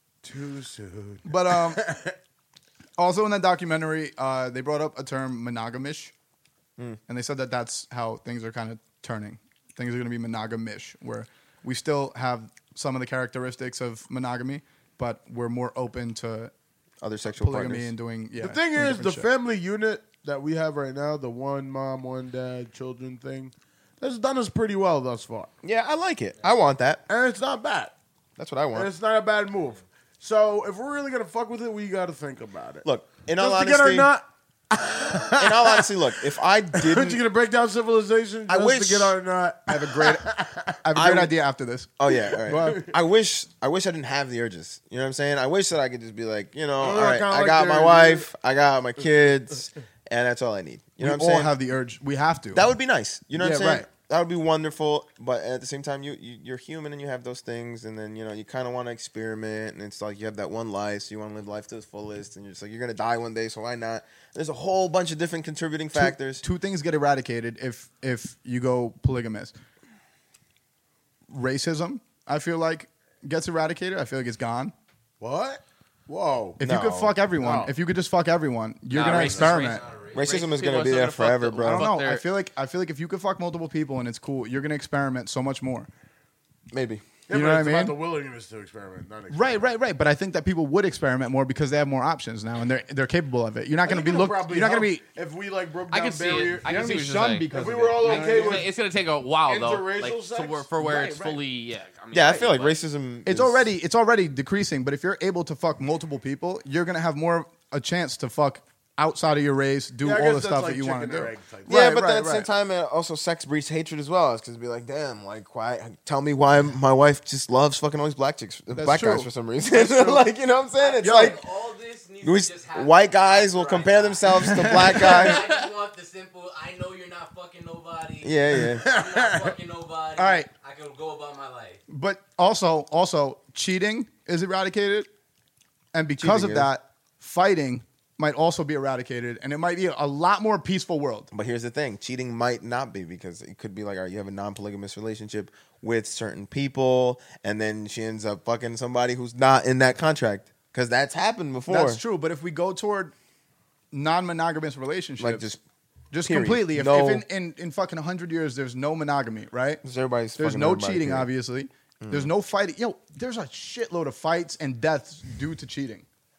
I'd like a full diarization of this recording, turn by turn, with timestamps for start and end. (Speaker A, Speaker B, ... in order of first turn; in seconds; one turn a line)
Speaker A: 0.2-2.1
Speaker B: 1.2-1.8
Speaker B: 3.0-6.1
Speaker B: 7.1-16.5
Speaker C: 17.0-17.9
Speaker B: 17.3-19.3
Speaker A: 18.4-25.5
Speaker C: 25.6-27.0
Speaker A: 27.1-27.9
Speaker C: 28.4-28.9
Speaker A: 28.7-32.9
Speaker C: 32.8-34.1
Speaker A: 33.4-40.8
Speaker C: 35.4-37.2
Speaker C: 38.5-39.2
Speaker B: 39.7-40.3
Speaker B: 40.8-41.9
Speaker C: 40.9-41.4
Speaker C: 42.0-51.5
Speaker A: 42.1-42.9
Speaker B: 42.4-42.9
Speaker A: 46.8-48.3
Speaker B: 51.0-52.7
Speaker C: 52.5-66.4
Speaker B: 53.4-53.9
Speaker B: 65.9-69.5
Speaker B: 71.3-74.7
Speaker A: 75.2-76.6
Speaker B: 76.6-79.8
Speaker C: 76.6-77.1
Speaker A: 77.3-77.7
Speaker D: 78.9-82.2
Speaker A: 79.0-79.6
Speaker E: 79.5-80.5
Speaker C: 80.1-81.9
Speaker B: 81.6-85.9
Speaker C: 86.7-87.0
Speaker A: 87.3-89.6
Speaker B: 87.3-88.0
Speaker B: 89.3-95.0
Speaker A: 93.8-96.8
Speaker D: 95.9-102.8
Speaker B: 96.6-98.7
Speaker A: 97.5-98.7
Speaker A: 99.5-101.3
Speaker B: 100.8-101.3
Speaker C: 102.1-103.7
Speaker B: 103.2-112.5
Speaker A: 110.0-111.7
Speaker C: 111.7-121.4
Speaker B: 118.7-119.3
Speaker A: 119.7-120.2
Speaker E: 120.7-131.8
Speaker B: 121.0-121.4
Speaker C: 122.2-125.5
Speaker B: 124.3-125.1
Speaker D: 125.1-125.6
Speaker C: 128.2-128.9
Speaker A: 128.5-129.5
Speaker B: 130.2-130.5
Speaker B: 131.9-135.1
Speaker B: 135.9-141.3
Speaker C: 136.2-136.7
Speaker C: 141.3-152.0
Speaker B: 151.7-153.1
Speaker B: 153.9-155.5
Speaker C: 155.2-155.6
Speaker B: 156.1-159.8
Speaker C: 156.2-157.2
Speaker C: 159.8-161.3
Speaker B: 160.3-166.0
Speaker C: 162.0-162.3